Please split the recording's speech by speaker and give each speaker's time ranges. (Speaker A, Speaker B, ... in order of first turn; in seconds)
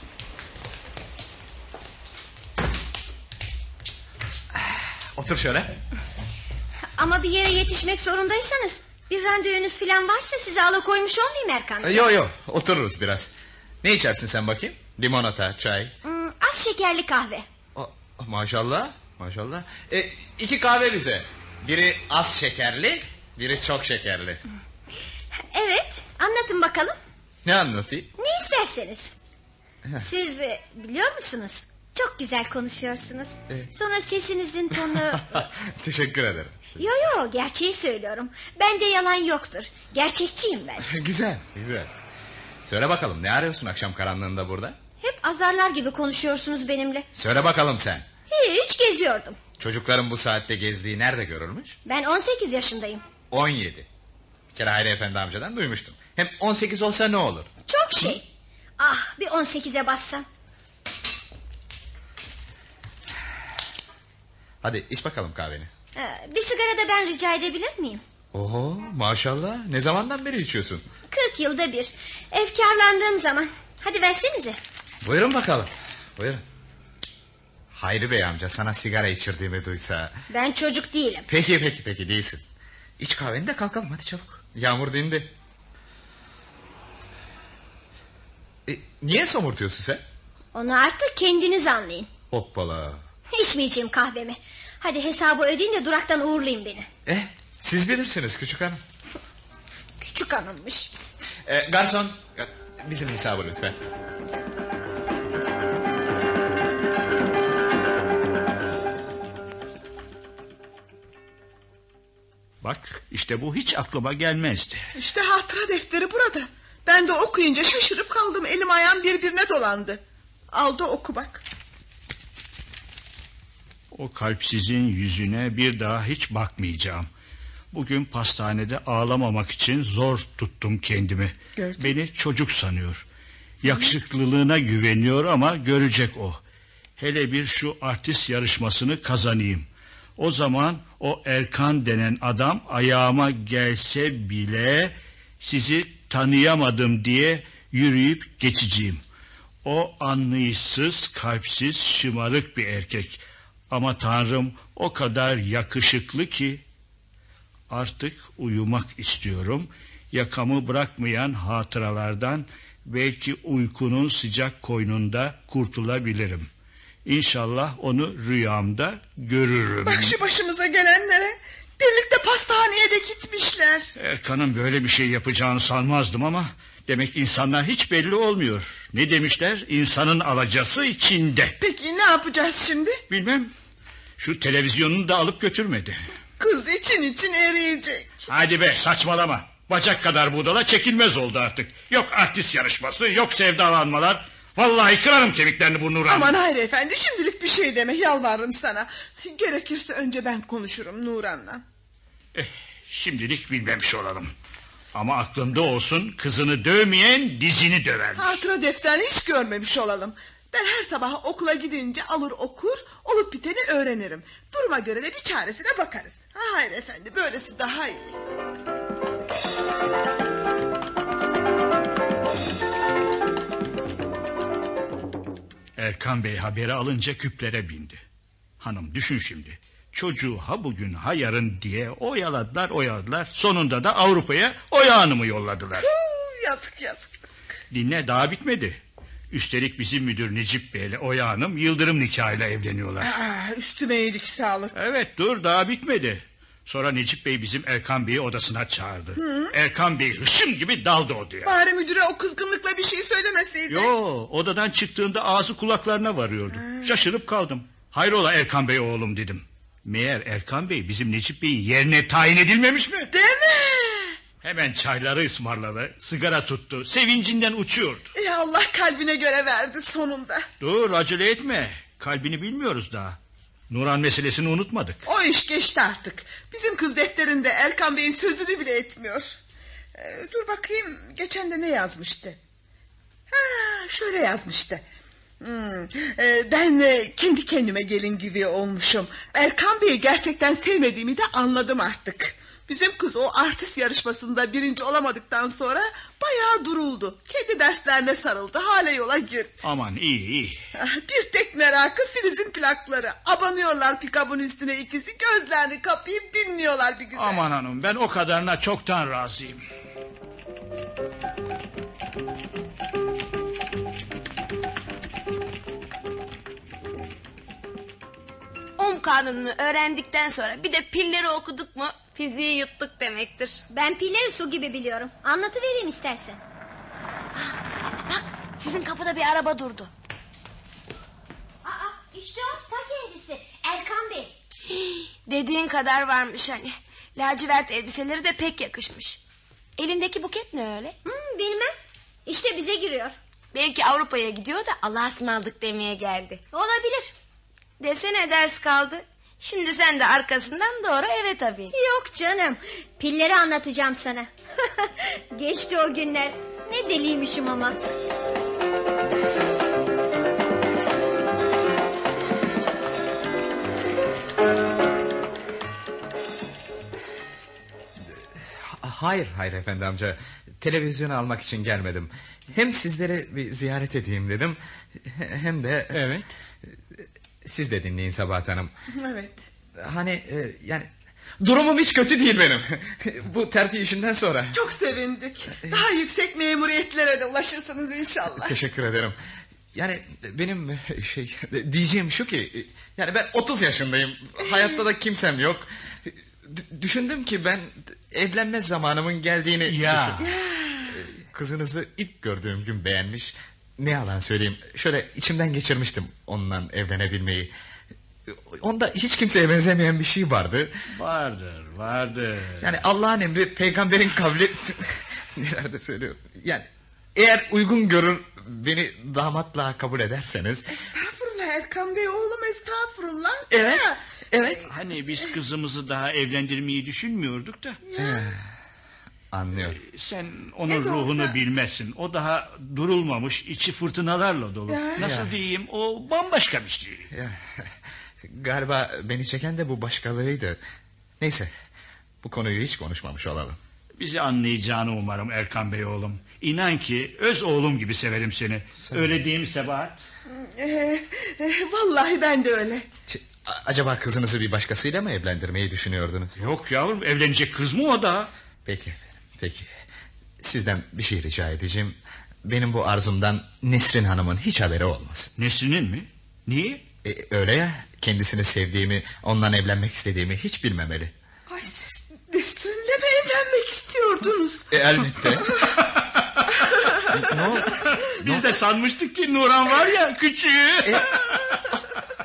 Speaker A: 4.5-5.7, 11.8-13.3, 13.8-15.9, 17.7-24.4, 27.4-28.1, 34.9-36.9, 40.8-41.9, 42.6-44.8, 47.1-48.0, 49.6-51.8, 53.3-53.9, 54.5-57.5, 64.6-65.7, 68.3-70.8, 75.0-76.4, 77.7-80.1, 81.3-82.4, 83.0-85.3, 88.7-90.0, 92.3-93.0, 97.0-98.8, 101.5-103.8, 368.1-378.7, 379.8-384.6, 388.4-389.1, 389.7-400.2, 400.9-407.5, 408.3-410.7, 412.6-420.7, 423.5-424.6, 428.0-428.4, 429.3-429.8, 435.0-435.3, 437.1-437.6, 438.2-440.6, 441.2-441.5, 442.2-443.6, 453.1-456.4, 458.6-459.7, 460.4-465.3, 467.0-471.1, 474.7-475.5, 477.2-477.7
Speaker B: 7.0-12.1, 16.0-17.4, 25.5-26.9, 28.2-29.1, 29.9-35.4, 36.8-40.9, 45.0-47.1, 48.3-49.4, 51.9-53.0, 57.7-58.2, 58.8-60.2, 65.9-68.0, 71.1-74.6, 80.3-81.3, 90.5-92.1, 93.3-96.9, 100.0-100.9, 323.7-326.4, 331.6-334.3, 341.0-341.7, 342.2-343.1, 346.5-347.1, 351.7-357.8
Speaker C: 112.6-114.9, 123.9-127.1, 127.7-133.0, 133.6-136.4, 137.0-149.0, 149.6-156.6, 157.7-166.5, 167.0-170.1, 174.0-181.5, 183.1-183.5, 184.2-186.0, 188.3-196.4, 202.3-204.3, 204.9-208.4, 225.8-228.0, 228.6-235.9, 237.7-238.8, 239.3-243.1, 244.7-251.5, 253.7-263.1, 264.4-268.1, 270.6-273.2, 273.7-275.0, 299.6-300.6, 307.1-309.6, 399.6-400.3, 410.9-412.8, 424.7-427.8, 429.7-437.1, 443.9-450.0, 456.4-458.3, 465.4-466.8, 477.6-481.4
Speaker D: 114.9-121.4, 131.6-131.9, 169.8-173.9, 181.6-183.0, 186.4-188.2, 196.0-201.6, 208.2-218.2, 235.8-237.2, 243.0-244.8, 249.2-249.5, 251.4-253.9, 256.7-257.0, 263.1-264.2, 268.1-270.4, 275.0-279.4, 279.9-282.4, 283.3-284.8, 285.4-299.6, 300.8-307.4, 378.9-379.4, 384.5-388.6, 400.2-400.9, 420.7-424.6, 427.9-428.3, 430.6-431.4, 434.7-435.1, 450.3-452.9, 471.5-475.8, 476.5-477.4, 481.2-481.6
Speaker E: 318.8-323.6, 327.3-329.9, 334.7-339.2, 339.8-341.0, 343.5-346.4, 347.8-351.7